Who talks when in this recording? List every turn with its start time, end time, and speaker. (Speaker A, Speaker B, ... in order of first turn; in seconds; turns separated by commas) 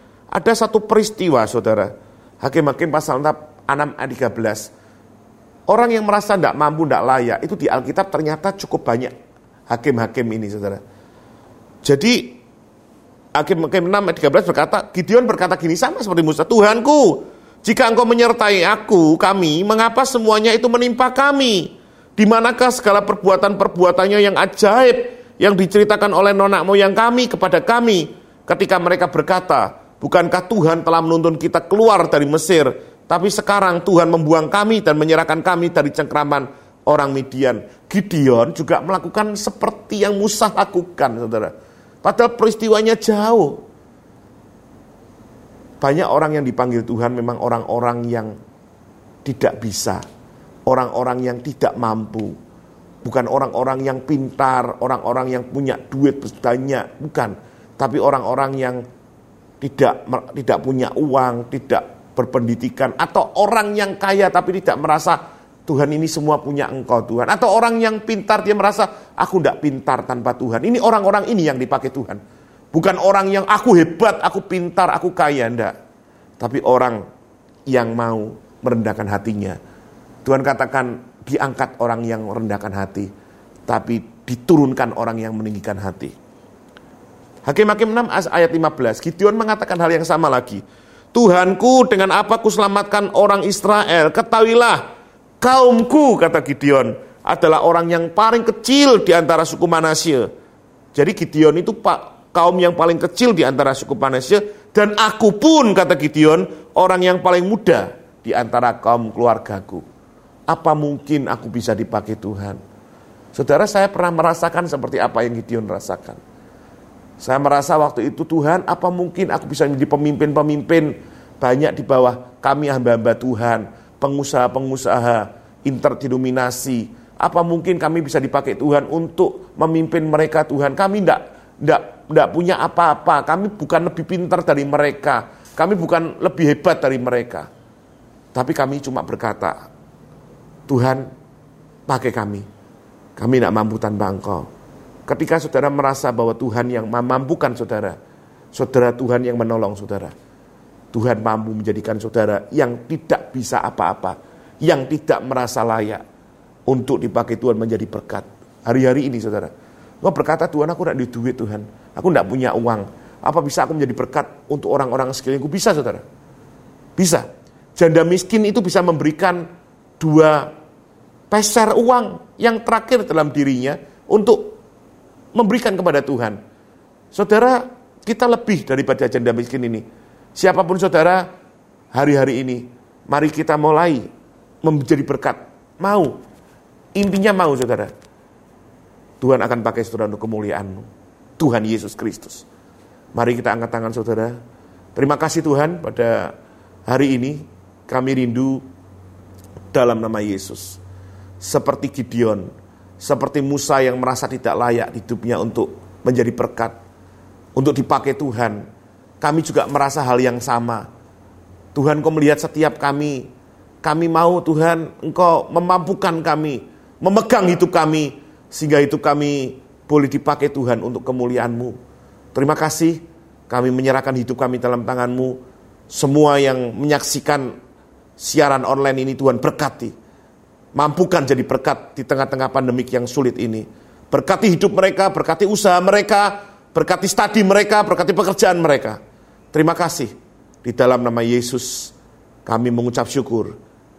Speaker A: 0.3-4.7, Speaker A: 5.7-9.1, Speaker A: 9.7-10.8, Speaker A: 11.8-12.4, Speaker A: 13.3-43.6, Speaker A: 45.8-48.3, Speaker A: 49.2-50.0, Speaker A: 50.6-52.4, Speaker A: 53.0-58.8, Speaker A: 59.6-72.2, Speaker A: 72.7-75.7, Speaker A: 76.4-77.0, Speaker A: 77.7-79.6, Speaker A: 80.2-83.1, Speaker A: 83.7-86.1, Speaker A: 87.4-90.6, Speaker A: 91.1-94.8, Speaker A: 95.4-100.3, Speaker A: 100.9-109.8, Speaker A: 110.5-112.6, Speaker A: 113.3-116.2, Speaker A: 117.2-137.5, Speaker A: 138.3-139.6, Speaker A: 140.7-141.1, Speaker A: 141.9-142.4, Speaker A: 143.2-144.5, Speaker A: 145.1-148.0, Speaker A: 148.5-150.1, Speaker A: 150.9-156.0, Speaker A: 156.7-166.0, Speaker A: 166.9-169.5, Speaker A: 170.0-170.5, Speaker A: 171.3-174.6, Speaker A: 175.3-176.4, Speaker A: 177.1-181.2, Speaker A: 181.9-184.1, Speaker A: 184.6-186.2, Speaker A: 186.9-187.9, Speaker A: 189.2-190.9, Speaker A: 191.4-192.4, Speaker A: 193.1-194.3, Speaker A: 194.9-196.3, Speaker A: 196.9-198.6, Speaker A: 199.7-200.8, Speaker A: 201.4-202.5, Speaker A: 203.0-206.7, Speaker A: 207.6-208.6, Speaker A: 209.2-210.8, Speaker A: 211.7-213.3, Speaker A: 213.8-221.8, Speaker A: 222.3-225.4, Speaker A: 225.9-227.5, Speaker A: 228.2-229.9, Speaker A: 230.7-239.0, Speaker A: 239.5-240.1, Speaker A: 240.6-241.9, Speaker A: 242.4-243.5